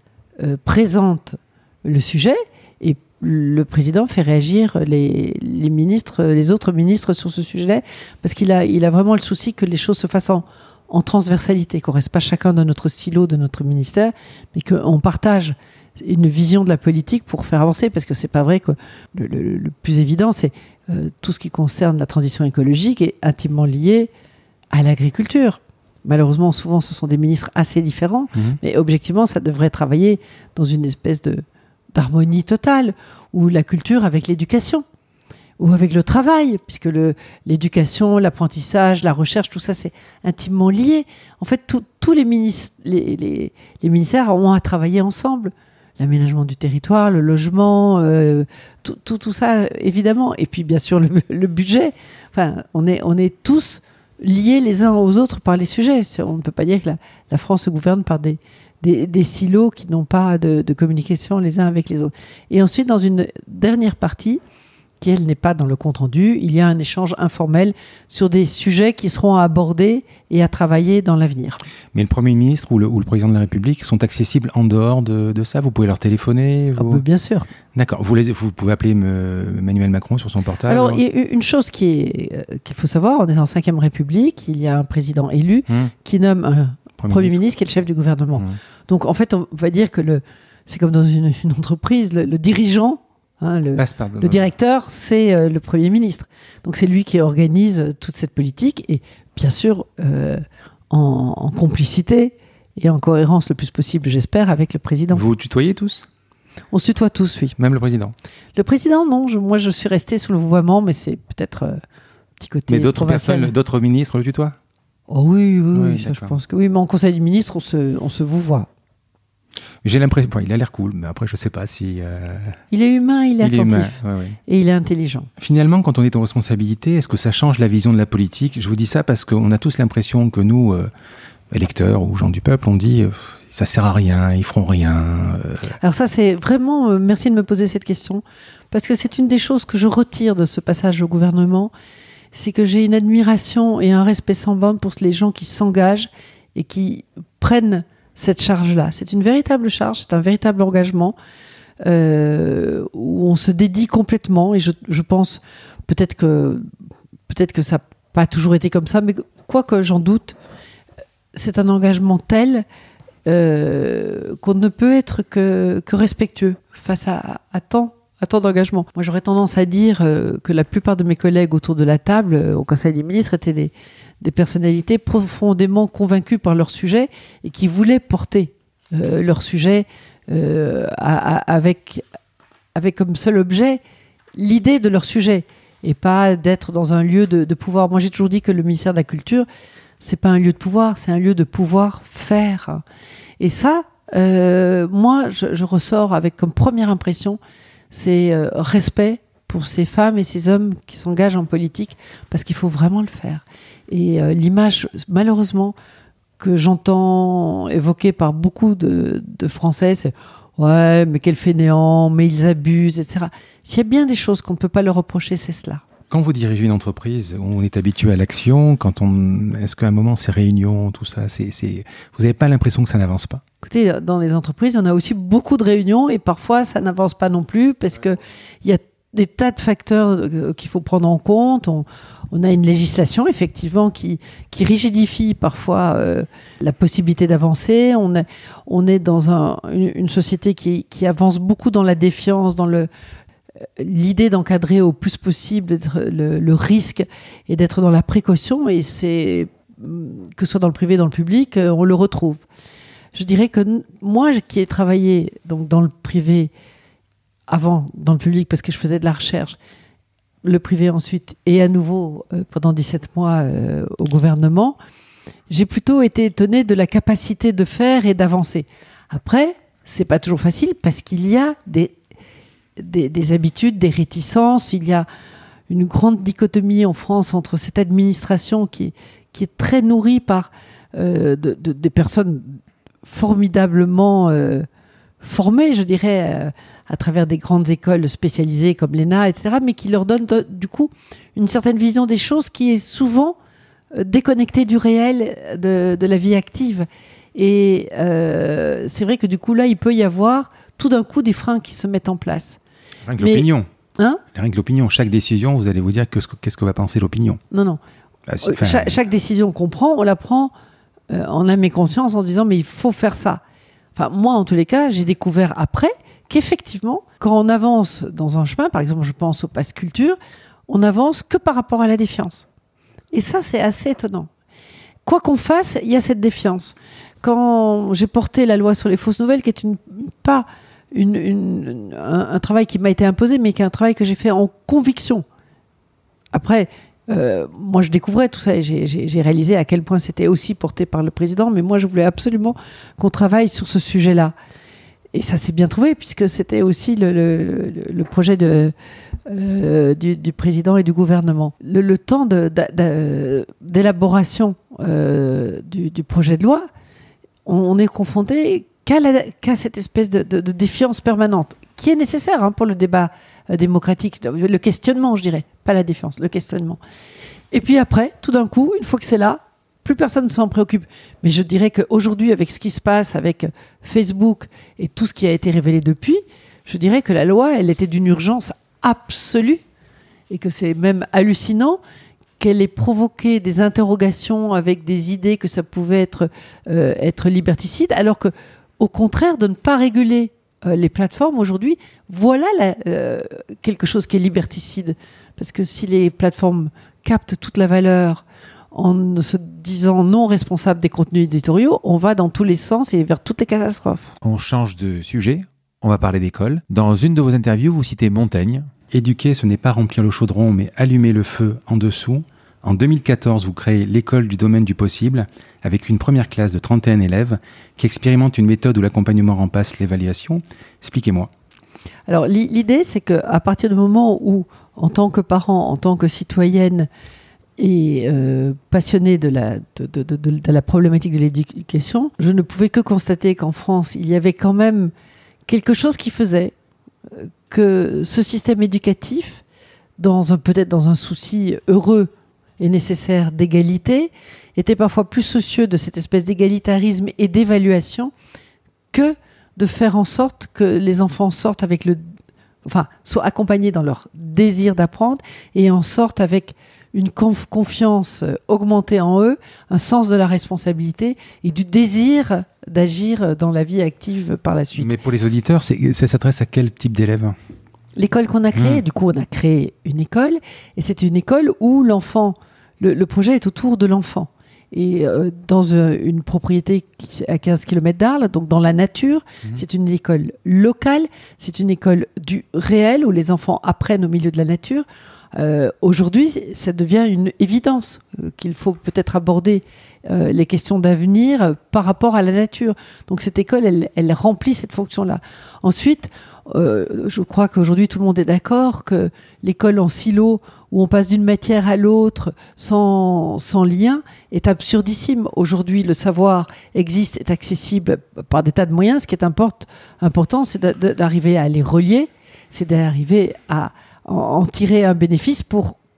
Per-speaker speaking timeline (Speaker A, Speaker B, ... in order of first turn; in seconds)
Speaker A: 0.4-24.1, 24.7-31.4, 31.9-34.8, 35.6-64.4, 65.0-71.6, 76.8-77.5, 80.7-105.2, 106.7-107.5, 108.5-111.8, 112.4-113.5, 115.1-118.7, 122.7-125.3, 135.8-141.7, 142.3-151.1, 151.8-156.6, 157.3-160.4, 161.3-162.6, 163.2-182.0, 182.7-183.8, 184.3-189.4, 190.0-192.8, 193.4-197.4, 197.9-205.7, 206.4-215.8, 223.6-242.9, 243.8-252.4, 253.1-256.5, 257.5-259.6, 260.4-264.8, 265.5-271.9, 272.8-275.1, 275.7-284.7, 285.2-293.3, 293.9-302.6, 303.2-303.5, 307.5-307.8, 308.4-310.5, 311.1-313.4, 313.9-320.2, 320.7-322.5, 323.1-324.3, 325.0-335.2, 336.3-344.3, 345.1-348.7, 349.2-356.7, 357.4-366.8, 367.5-379.6, 380.3-381.8, 382.4-404.1, 422.1-426.9, 427.6-434.9, 435.5-436.5, 437.1-439.4, 440.0-448.1, 448.9-452.0, 452.6-464.9, 468.0-515.8
Speaker B: 71.9-77.0, 77.7-81.0, 85.7-85.9, 87.0-87.4, 93.8-94.5, 105.1-106.1, 107.6-108.1, 112.7-114.5, 115.7-116.4, 119.8-122.6, 123.4-124.4, 125.4-130.9, 131.5-135.8, 216.1-223.4, 303.1-303.7, 304.3-307.4, 308.3-308.9, 404.2-421.3, 464.8-467.4, 468.6-468.8